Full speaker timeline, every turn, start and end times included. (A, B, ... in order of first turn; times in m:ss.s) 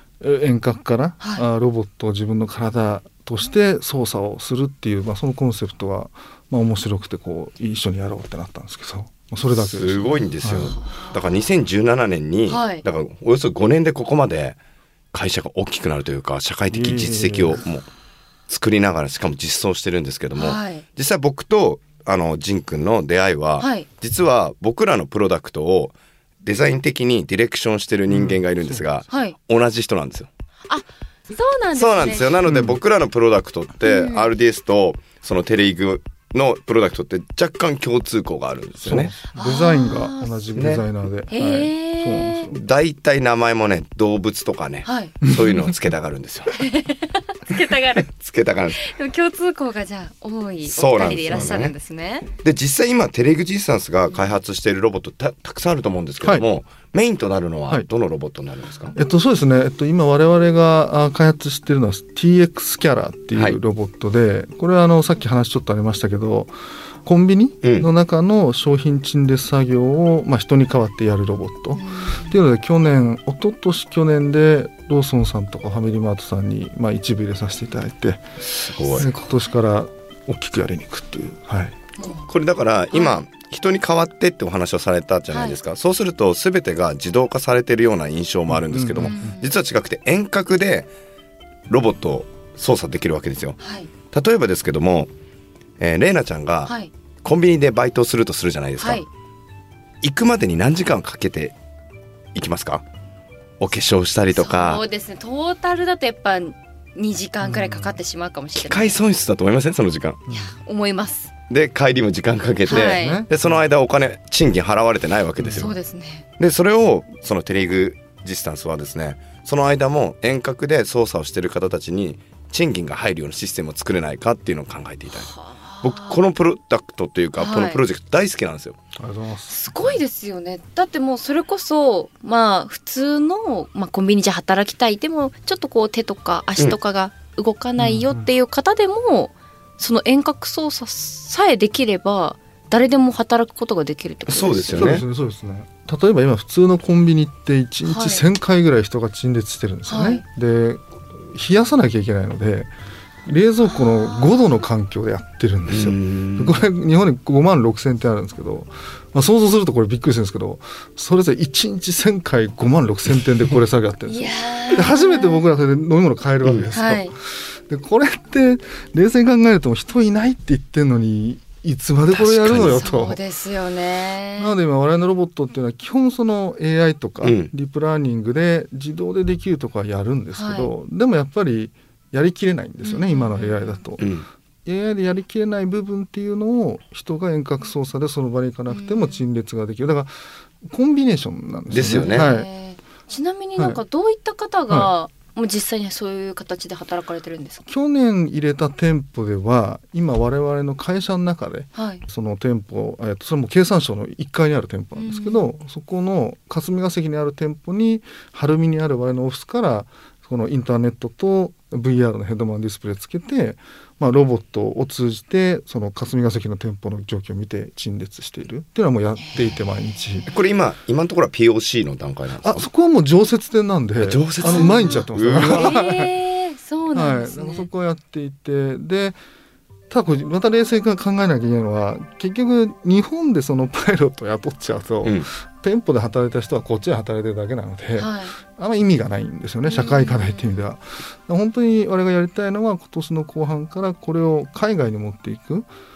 0:00.2-0:10.8 A
0:01.2-0:01.4 B
0:09.4-0:14.6 C
0:10.8-0:11.2 B
0:12.5-0:12.8 B
0:15.1-0:17.8 C
0:16.7-0:17.6 A
0:18.5-0:30.3 C
0:20.4-0:20.8 B
0:23.6-0:23.9 B
0:28.1-0:28.8 A
0:29.1-0:29.4 B
0:30.7-0:32.4 B
0:31.7-0:39.1 C
0:32.4-0:32.8 A
0:33.8-0:34.3 B
0:38.8-0:42.6 A
0:39.3-0:40.7 B
0:40.6-0:40.8 C
0:41.3-0:42.5 B
0:42.5-0:46.5 C
0:44.8-0:45.1 B
0:45.2-0:45.7 A
0:46.5-0:48.1 B
0:48.0-0:48.8 C
0:48.8-0:52.3 B
0:50.6-0:51.7 C
0:52.4-0:59.0 C
0:56.2-0:56.4 A
0:58.9-1:06.5 A
1:07.0-1:18.2 A
1:07.6-1:07.9 C
1:11.7-1:12.4 B
1:18.5-1:19.2 C
1:18.9-1:21.7 A
1:22.0-1:22.3 B
1:22.3-1:30.9 C
1:22.9-1:23.2 B
1:25.3-1:25.6 B
1:28.5-1:29.4 A
1:29.0-1:29.5 B
1:31.7-1:33.6 C
1:33.6-1:33.9 B
1:34.1-1:35.1 C
1:35.8-1:36.7 C
1:36.6-1:36.9 B
1:37.2-1:39.0 C
1:38.8-1:39.0 B
1:40.0-1:41.5 C
1:42.3-1:42.8 C
1:43.6-1:44.8 C
1:44.3-1:49.0 B
1:47.4-1:48.0 A
1:48.5-1:50.2 C
1:50.3-1:50.5 A
1:50.3-1:51.3 B
1:51.5-1:55.7 C
1:52.7-1:53.2 B
1:52.7-1:53.7 A
1:55.4-1:55.7 A
1:55.5-1:56.2 B
1:56.4-2:05.3 C
2:05.1-2:06.2 B
2:05.8-2:08.8 C
2:07.4-2:07.8 B
2:09.0-2:10.0 A
2:09.5-2:25.0 B
2:17.8-2:18.2 A
2:24.3-2:25.0 C
2:24.7-2:32.7 A
2:27.8-2:28.2 B
2:29.8-2:30.2 B
2:33.2-2:53.2 A
2:33.6-2:34.6 B
2:35.7-2:36.6 C
2:44.0-2:45.5 B
2:46.7-2:47.1 B
2:52.1-2:52.9 C
2:52.5-2:54.6 B
2:54.4-3:10.1 A
2:57.2-2:57.5 C
3:00.3-3:00.7 B
3:02.8-3:03.8 B
3:04.0-3:04.2 C
3:08.7-3:09.2 B
3:10.6-3:12.5 A
3:11.7-3:12.3 C
3:12.0-3:17.6 B
3:17.6-3:40.3 A
3:21.7-3:22.0 B
3:25.0-3:25.5 B
3:39.2-3:40.3 B
3:40.3-3:42.7 C
3:42.4-3:46.1 A
3:44.0-3:45.7 C
3:44.4-3:47.7 B
3:46.9-3:49.2 A
3:49.9-4:05.7 A
3:58.0-3:58.3 B
3:59.6-4:00.7 B